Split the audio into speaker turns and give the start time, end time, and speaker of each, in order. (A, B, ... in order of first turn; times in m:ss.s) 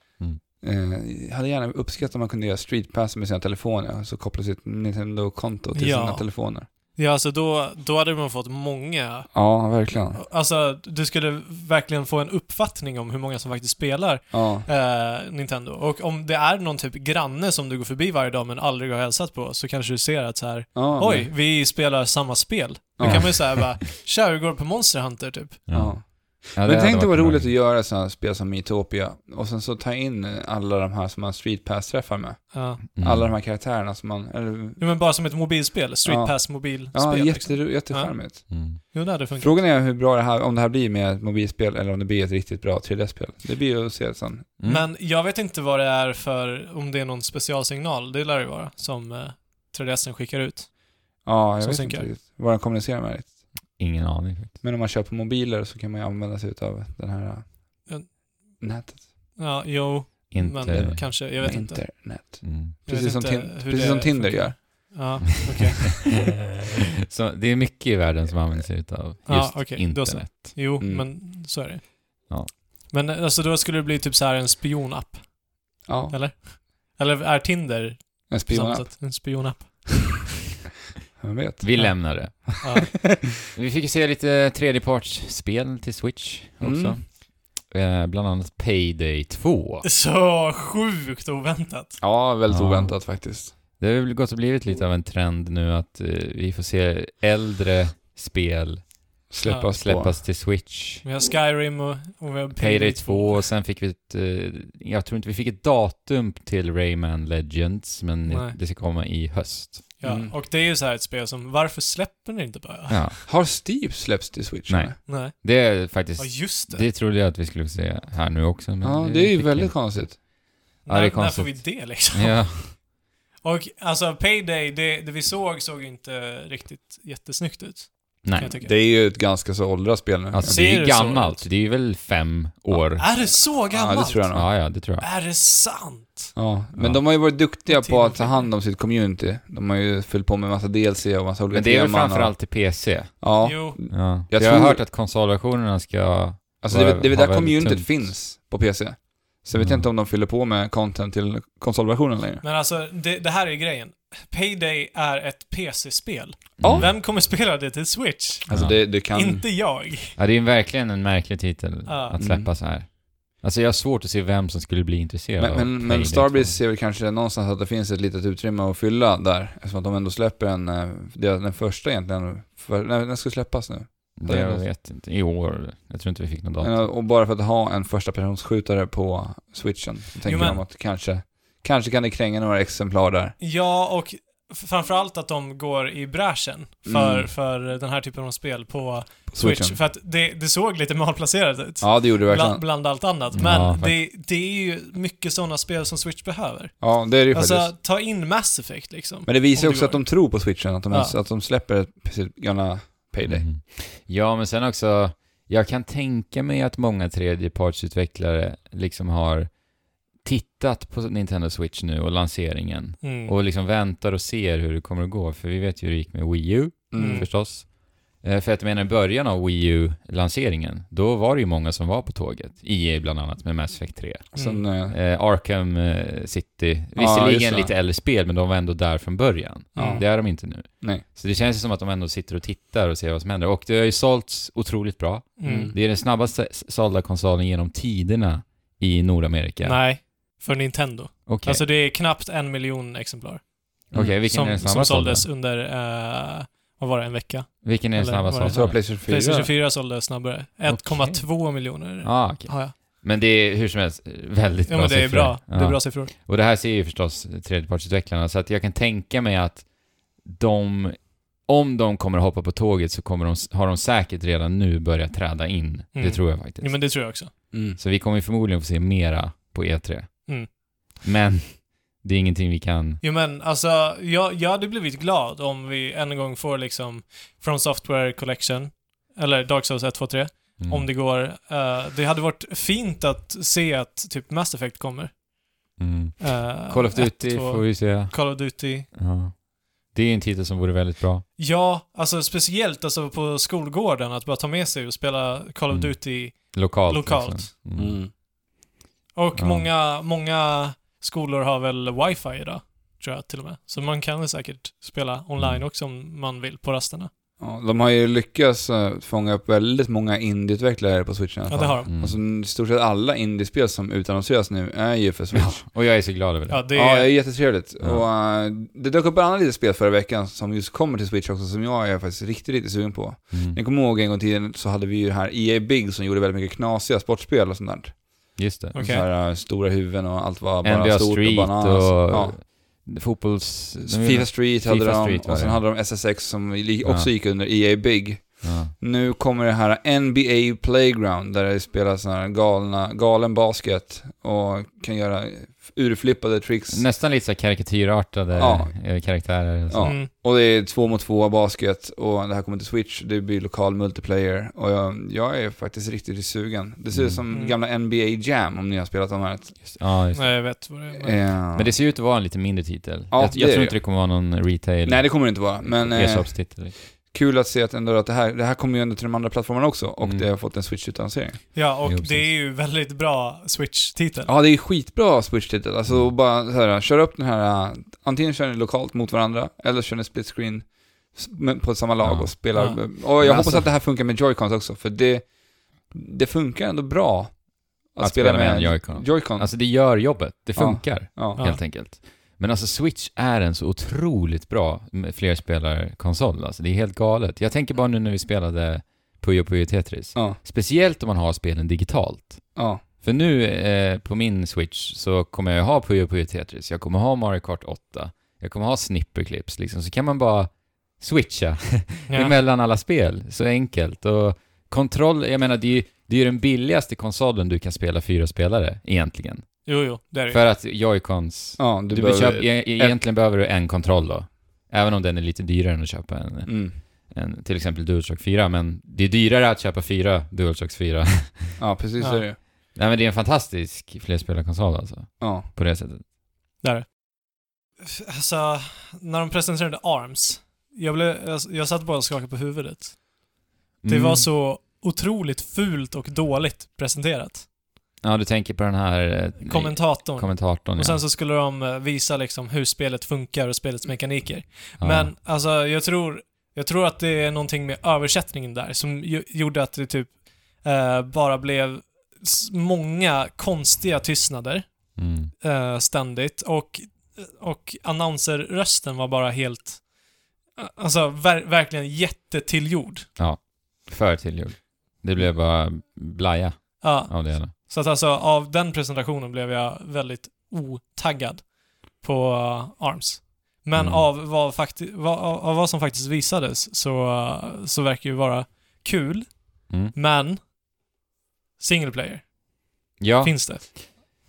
0:00.6-0:06.7 A
0:05.7-0:25.6 B
0:09.3-0:10.2 A
0:14.3-0:14.7 A
0:20.7-0:21.3 A
0:23.0-0:23.5 A
0:23.0-0:23.7 C
0:25.7-0:27.5 C
0:25.7-0:34.9 A
0:32.5-0:32.8 B
0:33.0-0:33.3 C
0:34.8-0:39.6 B
0:36.0-0:44.5 A
0:38.5-0:38.8 C
0:44.6-0:44.9 C
0:44.6-0:50.7 B
0:51.2-0:53.3 A
0:51.6-0:52.1 B
0:53.8-0:54.6 C
0:54.6-0:57.9 A
0:57.9-0:58.6 B
0:58.6-0:59.1 A
0:59.4-1:02.0 B
1:00.3-1:01.1 C
1:00.7-1:04.9 A
1:02.4-1:02.8 C
1:02.8-1:06.2 B
1:07.1-1:10.5 C
1:09.2-1:20.3 B
1:10.8-1:11.1 A
1:12.3-1:12.5 C
1:15.8-1:16.2 A
1:18.3-1:19.2 A
1:21.2-1:23.1 A
1:21.6-1:22.6 C
1:21.8-1:22.9 B
1:23.5-1:29.8 C
1:26.6-1:27.0 A
1:29.8-1:32.0 B
1:32.0-1:33.5 A
1:32.5-1:33.0 C
1:33.8-1:38.8 C
1:39.3-1:40.1 A
1:39.4-1:39.7 B
1:39.5-1:41.0 C
1:41.0-1:43.5 B
1:42.6-1:49.9 C
1:48.3-1:48.6 B
1:50.0-1:53.2 B
1:50.0-1:50.3 A
1:52.9-1:53.2 C
1:53.3-1:55.0 A
1:54.7-2:00.3 C
1:55.0-1:55.4 B
1:56.0-1:56.9 B
1:58.8-2:00.2 A
2:00.8-2:02.9 B
2:00.8-2:02.8 C
2:03.4-2:08.7 B
2:08.2-2:08.5 C
2:08.6-2:10.6 A
2:10.3-2:13.1 C
2:10.4-2:11.5 B
2:13.0-2:16.3 B
2:13.7-2:14.5 A
2:14.3-2:15.0 C
2:16.3-2:22.4 A
2:16.8-2:17.0 C
2:17.7-2:18.5 B
2:21.5-2:23.3 C
2:23.2-2:24.8 A
2:23.4-2:23.8 B
2:23.9-2:28.1 C
2:26.6-2:32.4 A
2:29.5-2:29.9 C
2:32.4-2:40.2 B
2:36.6-2:36.9 C
2:36.6-2:36.9 A
2:38.5-2:39.4 A
2:38.5-2:38.8 C
2:40.2-2:46.6 C
2:41.8-2:42.2 B
2:42.2-2:42.5 A
2:45.4-2:54.6 A
2:54.2-2:56.8 C
2:56.6-3:03.4 A
3:00.2-3:00.6 B
3:03.4-3:20.1 B
3:06.8-3:07.3 A
3:09.3-3:09.8 A
3:11.8-3:12.6 A
3:13.3-3:14.0 C
3:16.8-3:17.7 A
3:19.3-3:23.5 A
3:20.9-3:21.2 B
3:23.2-3:29.5 C
3:30.2-3:59.8 C
3:33.0-3:33.3 B
3:36.9-3:37.3 A
3:36.9-3:37.3 B
3:44.3-3:45.0 A
3:44.3-3:44.6 B
3:47.0-3:47.7 A
3:49.7-3:50.0 B
3:49.7-3:51.0 A
3:55.4-3:55.7 B
3:55.4-3:55.7 A
3:59.6-4:12.7 B
4:01.2-4:01.6 C
4:03.9-4:05.3 C
4:07.6-4:08.8 C
4:08.5-4:09.5 A
4:10.6-4:19.7 C
4:14.7-4:16.1 B
4:20.2-4:26.9 C
4:25.9-4:27.3 B
4:27.5-4:27.8 A
4:27.7-4:33.0 C
4:33.0-4:45.2 B
4:40.6-4:40.9 C
4:45.8-4:51.2 C
4:46.2-4:48.9 B
4:51.4-4:57.5 B
4:55.7-4:58.0 C
4:57.8-4:58.1 A
4:59.1-5:07.1 B
4:59.4-4:59.7 C
5:05.4-5:05.6 C
5:07.4-5:15.6 A
5:11.5-5:11.9 B
5:11.9-5:12.2 C
5:15.3-5:16.6 C
5:16.5-5:17.1 B
5:16.7-5:32.4 A
5:17.8-5:18.0 C
5:23.3-5:23.6 C
5:28.4-5:28.7 C
5:28.7-5:29.0 B
5:30.6-5:35.6 C
5:33.8-5:46.8 A
5:36.8-5:37.1 C
5:38.4-5:38.7 C
5:46.7-5:49.9 C
5:48.3-5:48.8 A
5:49.7-5:59.8 A
5:49.8-5:50.1 B
5:56.9-5:57.2 C
5:59.6-6:00.3 C
6:00.1-6:01.2 B
6:01.0-6:01.7 A
6:01.5-6:06.7 C
6:03.1-6:03.9 A
6:04.8-6:11.5 A
6:10.0-6:10.2 C
6:11.5-6:14.3 B
6:11.8-6:12.3 C
6:14.3-6:29.7 A
6:22.0-6:23.7 C
6:22.5-6:22.8 B
6:28.0-6:59.7 C
6:30.6-6:31.4 A
6:31.4-6:31.6 B
6:42.6-6:42.8 A
6:52.1-6:52.3 B
6:59.6-7:00.4 B
7:00.3-7:11.6 C
7:01.6-7:03.0 A
7:06.4-7:06.8 A
7:11.6-7:12.4 A
7:12.7-7:16.0 C
7:15.2-7:15.5 A
7:16.6-7:17.1 B
7:17.8-7:23.1 B
7:23.8-7:24.3 C
7:23.9-7:27.5 B
7:28.0-7:31.0 C
7:29.4-7:49.9 B
7:34.8-7:35.1 C
7:45.0-7:45.3 C
7:50.6-7:53.1 B
7:53.2-7:57.5 C
7:56.8-8:10.4 B
8:03.7-8:04.0 C
8:09.7-8:09.9 C
8:11.6-8:12.3 B
8:13.0-8:13.8 C
8:13.2-8:13.7 B